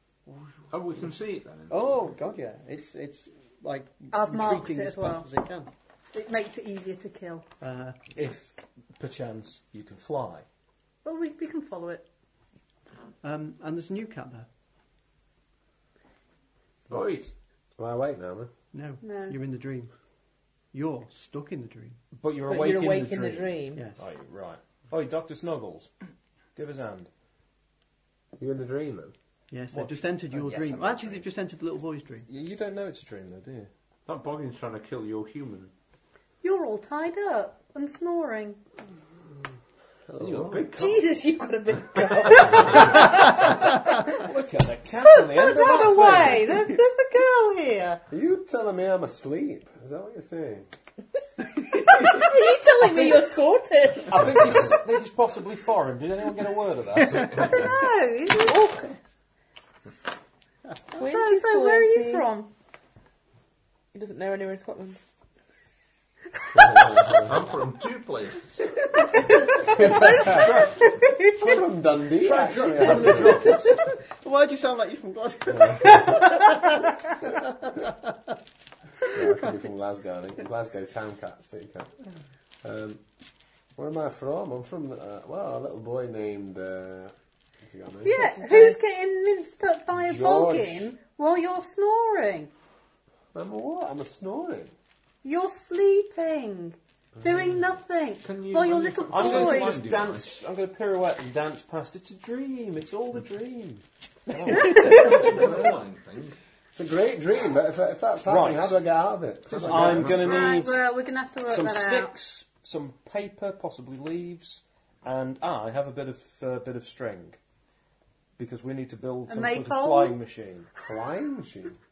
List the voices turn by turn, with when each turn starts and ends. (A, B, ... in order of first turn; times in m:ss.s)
0:00.3-0:00.7 A
0:00.7-0:02.1 B
0:01.7-0:05.7 A
0:04.1-0:05.3 C
0:06.1-0:07.5 C
0:07.6-0:08.0 A
0:08.2-0:10.5 D
0:11.0-0:12.0 C
0:13.2-0:14.5 A
0:16.9-0:17.3 B
0:16.9-0:17.2 E
0:17.8-0:18.5 E
0:18.7-0:19.9 A
0:19.0-0:19.4 C
0:20.7-0:22.0 A
0:22.2-0:25.9 D
0:22.5-0:23.8 F
0:23.8-0:24.0 A
0:26.6-0:27.1 D
0:28.4-0:29.1 E
0:29.5-0:32.3 A
0:29.7-0:30.8 D
0:30.5-0:31.1 B
0:32.3-0:33.7 D
0:34.1-0:35.7 B
0:36.4-0:38.6 C
0:40.1-0:41.0 E
0:40.2-0:41.0 B
0:40.7-0:43.7 F
0:44.0-0:46.5 D
0:45.2-0:48.0 C
0:45.7-0:46.7 F
0:48.1-0:50.7 E
0:51.9-0:54.4 F
0:52.8-0:53.2 D
0:54.0-0:57.7 D
0:57.1-0:57.6 B
0:57.5-0:58.7 C
0:58.3-0:59.0 F
1:01.0-1:02.5 C
1:01.0-1:02.3 F
1:03.9-1:05.0 F
1:06.6-1:07.3 E
1:07.2-1:08.7 B
1:09.7-1:10.5 E
1:11.4-1:13.6 E
1:12.2-1:13.7 B
1:12.6-1:13.6 D
1:14.0-1:16.7 A
1:15.5-1:16.1 E
1:17.2-1:17.9 A
1:19.1-1:21.9 E
1:22.6-1:23.0 E
1:23.8-1:28.3 E
1:28.0-1:32.5 C
1:28.4-1:28.8 F
1:30.0-1:30.9 E
1:33.3-1:34.7 E
1:35.2-1:39.8 C
1:38.2-1:40.4 B
1:39.1-1:45.8 D
1:44.8-1:46.4 B
1:46.7-1:50.2 E
1:48.2-1:48.8 D
1:49.5-1:50.6 B
1:49.6-1:50.9 D
1:50.2-1:52.1 C
1:51.4-1:57.4 D
1:58.4-2:00.7 D
1:59.3-2:00.2 C
2:00.8-2:01.8 E